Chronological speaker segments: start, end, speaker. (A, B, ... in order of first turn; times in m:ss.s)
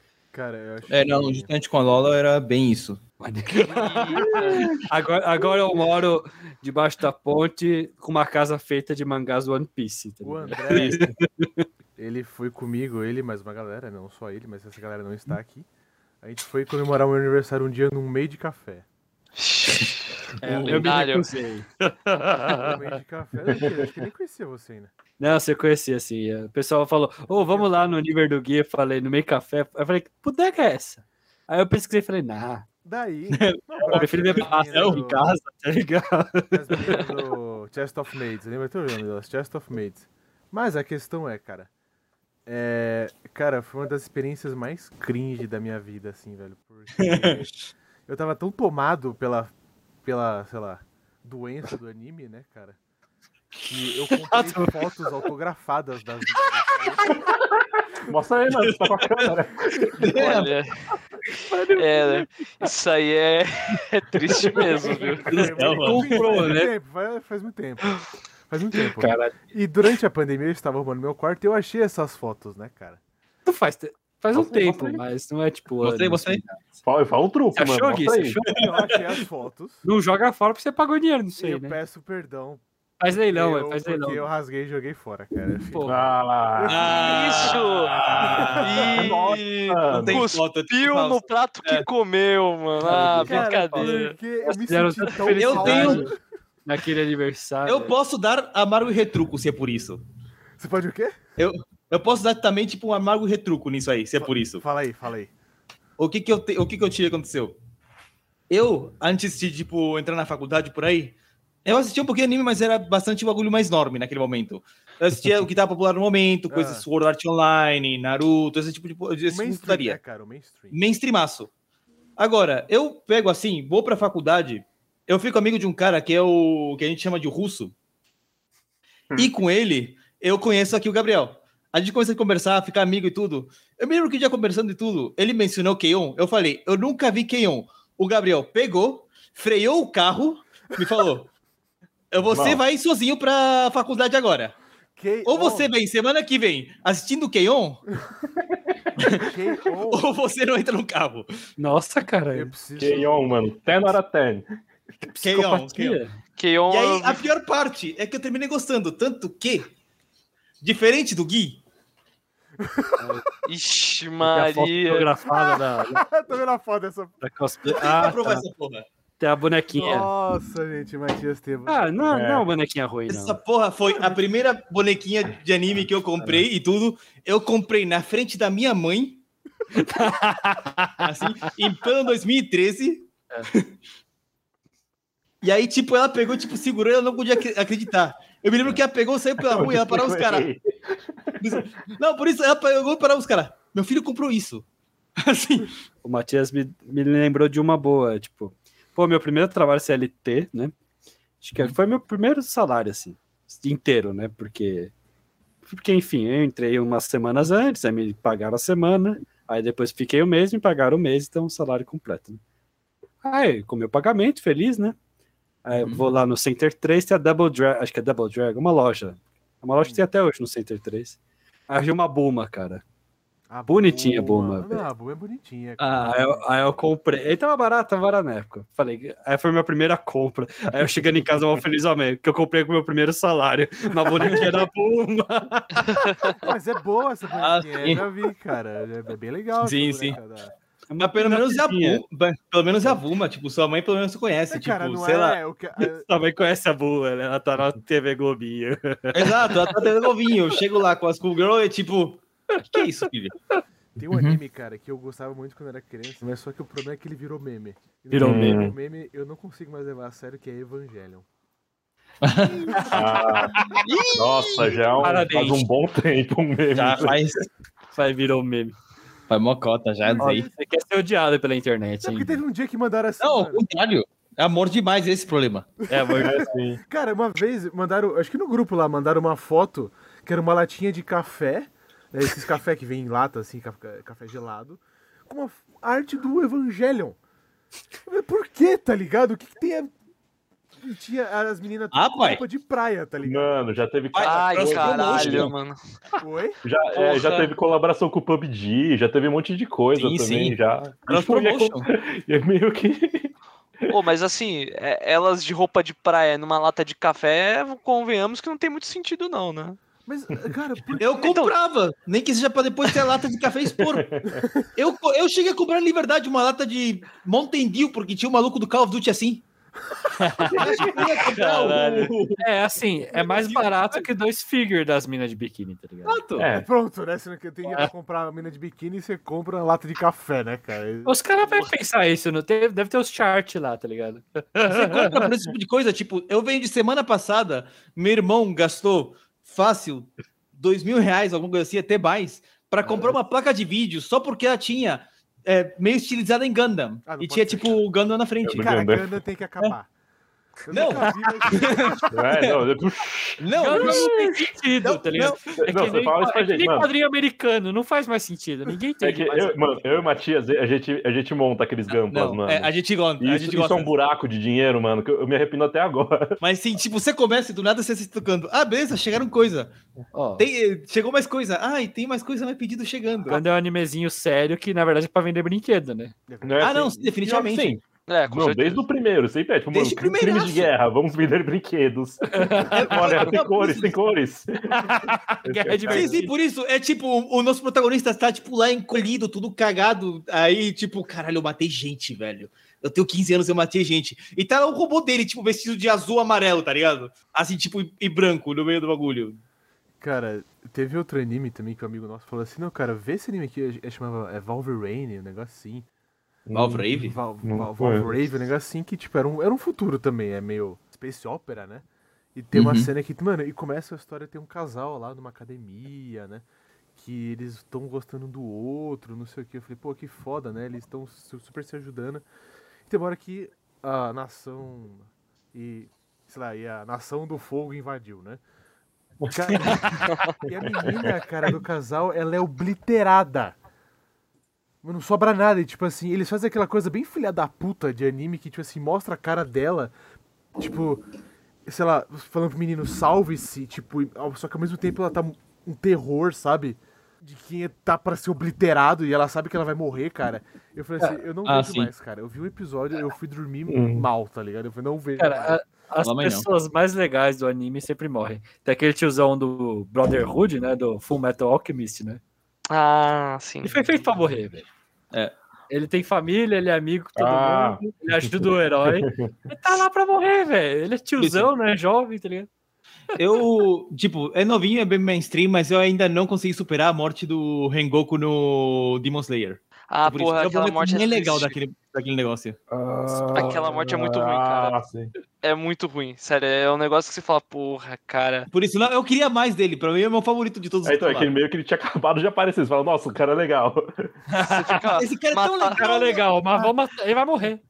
0:00.3-0:01.5 A
0:00.9-0:03.0 B
0:03.2-0:11.7 C
0:03.6-0:04.7 D
0:10.2-0:11.0 A
0:12.0-0:15.7 A
0:16.2-0:18.8 A
0:19.4-0:20.1 D
0:20.4-0:22.6 C
0:20.5-0:20.8 B
0:20.6-0:21.3 D
0:22.6-0:24.9 A
0:25.2-0:32.7 C
0:27.3-0:28.0 A
0:32.8-0:35.3 A
0:33.4-0:33.8 B
0:33.9-0:37.0 C
0:34.4-0:35.0 B
0:36.5-0:41.7 A
0:42.5-0:47.5 A
0:48.1-0:49.5 A
0:50.0-0:52.8 A
0:53.7-0:57.2 A
0:54.3-0:54.8 C
0:58.0-1:00.1 E
0:58.5-0:59.3 B
1:00.0-1:00.5 B
1:00.1-1:00.8 D
1:01.3-1:02.6 C
1:01.8-1:05.3 D
1:04.4-1:04.7 E
1:04.6-1:06.7 C
1:05.2-1:06.2 B
1:05.3-1:13.0 A
1:09.0-1:09.3 C
1:13.5-1:16.8 C
1:14.3-1:15.0 E
1:15.8-1:16.4 B
1:16.8-1:18.4 E
1:17.5-1:18.7 C
1:18.5-1:19.8 A
1:18.6-1:19.0 B
1:19.8-1:21.8 C
1:21.4-1:25.9 A
1:23.0-1:24.3 C
1:25.7-1:26.1 C
1:25.8-1:27.1 E
1:26.5-1:27.6 A
1:26.7-1:31.9 B
1:27.0-1:28.1 D
1:28.1-1:30.2 E
1:28.2-1:28.9 A
1:28.6-1:34.2 D
1:32.8-1:36.1 C
1:33.2-1:36.2 A
1:35.4-1:36.0 B
1:36.6-1:38.0 C
1:37.7-1:40.0 B
1:40.6-1:41.2 A
1:41.4-1:44.6 B
1:44.2-1:45.3 A
1:46.0-1:47.6 B
1:48.5-2:00.0 B
1:56.5-1:56.9 A
1:59.3-2:00.8 A
2:00.7-2:01.5 B
2:02.2-2:07.7 B
2:09.2-2:21.3 B
2:22.1-2:24.6 B
2:22.3-2:22.6 E
2:25.0-2:25.7 A
2:25.2-2:27.8 B
2:29.0-2:29.3 B
2:29.2-2:30.1 A
2:29.9-2:31.3 B
2:31.6-2:32.5 C
2:32.3-2:33.4 A
2:32.8-2:34.6 E
2:35.0-2:36.2 C
2:35.2-2:36.0 B
2:36.4-2:37.3 D
2:36.7-2:39.7 B
2:40.6-2:41.6 B
2:42.6-2:43.0 A
2:43.0-2:43.3 C
2:43.4-2:45.2 D
2:44.3-2:46.0 C
2:45.2-2:47.2 A
2:47.2-2:48.4 C
2:47.6-2:48.9 B
2:49.2-2:50.1 C
2:49.7-2:52.1 A
2:51.7-2:53.4 C
2:52.1-2:52.5 E
2:53.1-2:59.2 B
2:59.7-3:01.5 C
3:01.0-3:03.7 B
3:05.4-3:10.5 B
3:09.4-3:11.6 E
3:11.4-3:14.6 B
3:15.2-3:15.7 B
3:16.0-3:20.7 C
3:21.4-3:24.9 C
3:25.7-3:32.4 C
3:33.2-3:35.0 C
3:35.6-3:41.2 C
3:35.8-3:36.1 B
3:39.8-3:40.1 A
3:41.7-3:42.8 C
3:43.5-3:46.4 A
3:43.7-3:44.8 C
3:45.8-3:46.1 B
3:46.0-3:56.1 C
3:54.2-3:54.5 B
3:56.1-3:56.3 D
3:56.4-4:00.5 A
3:57.4-3:58.0 B
3:59.6-4:00.2 B
4:00.9-4:02.0 C
4:01.0-4:05.4 B
4:04.5-4:06.1 A
4:06.1-4:09.5 C
4:09.1-4:13.3 B
4:14.0-4:21.3 A
4:14.1-4:14.4 B
4:18.1-4:18.6 C
4:18.2-4:18.7 E
4:22.2-4:22.7 B
4:22.4-4:23.4 A
4:22.8-4:23.6 C
4:22.9-4:23.6 E
4:23.5-4:24.9 B
4:24.2-4:27.2 E
4:25.0-4:25.7 C
4:26.7-4:27.5 B
4:27.9-4:28.8 C
4:29.3-4:30.5 B
4:30.0-4:30.6 A
4:30.2-4:32.4 C
4:32.0-4:33.7 A
4:33.2-4:35.8 B
4:35.9-4:36.5 C
4:35.9-4:47.2 A
4:36.2-4:36.8 E
4:48.1-4:49.9 A
4:50.8-4:53.6 A
4:51.9-4:52.4 B
4:53.2-4:55.5 E
4:54.1-4:55.5 B
4:54.2-4:55.8 D
4:56.2-4:56.6 A
4:56.6-5:03.3 E
4:57.0-4:57.5 D
4:59.9-5:01.9 B
5:03.9-5:09.8 D
5:10.0-5:11.2 A
5:11.0-5:14.0 B
5:11.2-5:11.6 D
5:13.8-5:14.5 E
5:14.7-5:19.4 B
5:20.4-5:22.4 B
5:20.4-5:21.0 C
5:20.5-5:21.0 E
5:21.3-5:22.1 D
5:22.4-5:26.2 C
5:23.1-5:24.0 B
5:26.0-5:26.5 B
5:26.4-5:26.7 E
5:26.5-5:31.2 A
5:31.1-5:35.2 C
5:31.5-5:31.7 D
5:34.7-5:48.7 B
5:42.8-5:43.1 E
5:47.1-5:47.8 A
5:48.4-5:49.0 E
5:48.5-5:49.9 A
5:50.6-5:52.1 A
5:50.7-5:52.6 B
5:51.0-5:51.9 C
5:52.1-5:54.0 E
5:53.4-5:54.2 B
5:53.6-5:59.7 C
5:54.8-5:55.5 B
5:55.6-5:56.9 E
5:59.0-6:06.4 E
6:01.9-6:03.9 B
6:06.4-6:09.7 B
6:10.1-6:10.5 C
6:10.4-6:13.4 B
6:13.3-6:16.1 C
6:16.3-6:16.8 A
6:16.4-6:26.2 E
6:16.6-6:17.7 B
6:18.1-6:18.8 D
6:19.7-6:20.7 B
6:22.4-6:22.8 C
6:22.7-6:24.0 B
6:24.7-6:26.3 C
6:25.9-6:39.4 B
6:40.0-6:45.9 A
6:46.5-6:46.9 E
6:46.5-6:47.2 B
6:47.0-6:56.4 A
6:47.4-6:48.1 E
6:52.5-6:52.9 B
6:57.0-7:02.2 A
7:02.9-7:08.4 A
7:09.3-7:13.6 A
7:10.8-7:11.1 E
7:14.8-7:19.9 A
7:20.6-7:21.0 A
7:21.7-7:35.6 A
7:31.0-7:31.9 B
7:33.7-7:34.1 E
7:35.2-7:42.2 C
7:36.0-7:36.5 B
7:42.7-7:43.8 D
7:43.6-7:44.7 C
7:45.7-7:52.5 C
7:47.2-7:48.3 E
7:48.9-7:49.4 E
7:51.2-7:51.5 B
7:53.2-8:02.6 B
7:59.9-8:01.6 D
8:02.7-8:05.1 E
8:03.3-8:04.8 D
8:05.4-8:08.5 D
8:08.5-8:11.3 B
8:10.8-8:14.2 E
8:14.3-8:14.8 C
8:14.4-8:15.8 D
8:14.9-8:16.7 B
8:15.7-8:17.6 C